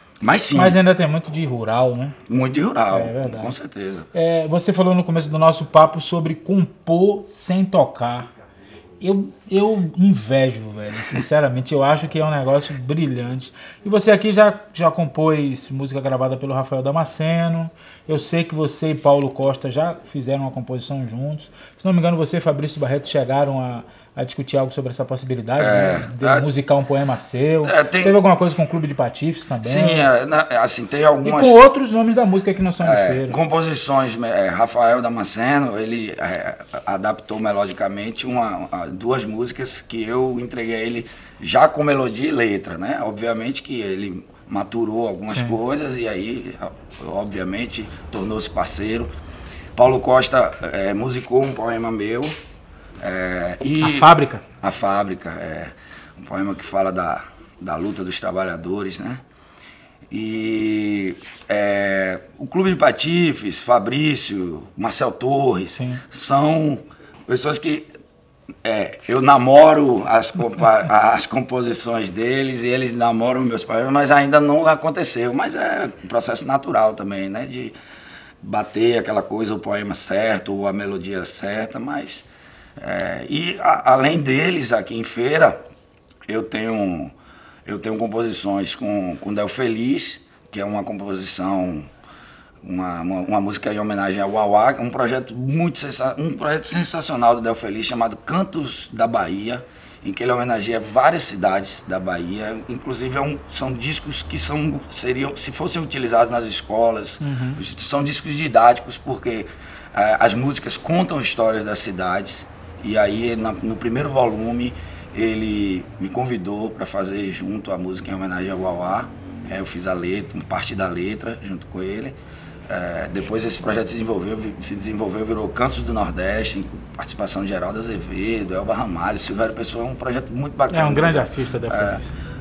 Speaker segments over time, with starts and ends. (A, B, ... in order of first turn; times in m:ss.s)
0:00.2-0:00.8 A
0:00.5-0:02.2 B
0:02.3-0:04.1 A
0:02.9-0:03.5 B
0:04.1-0:08.3 B
0:09.0-0:30.1 B
0:25.6-0:26.5 A
0:27.6-0:28.2 A
0:29.6-0:31.6 A
0:31.2-0:33.4 B
0:32.8-0:49.1 A
0:49.8-0:52.3 A
0:53.0-0:59.2 A
0:53.8-0:54.4 B
1:00.1-1:07.9 A
1:05.8-1:06.0 B
1:08.6-1:17.8 A
1:18.4-1:22.3 A
1:22.8-1:25.6 A
1:26.3-1:27.1 A
1:27.7-1:31.9 A
1:32.6-2:02.2 A
1:47.2-1:47.6 B
2:02.7-2:12.0 A
2:10.7-2:12.1 B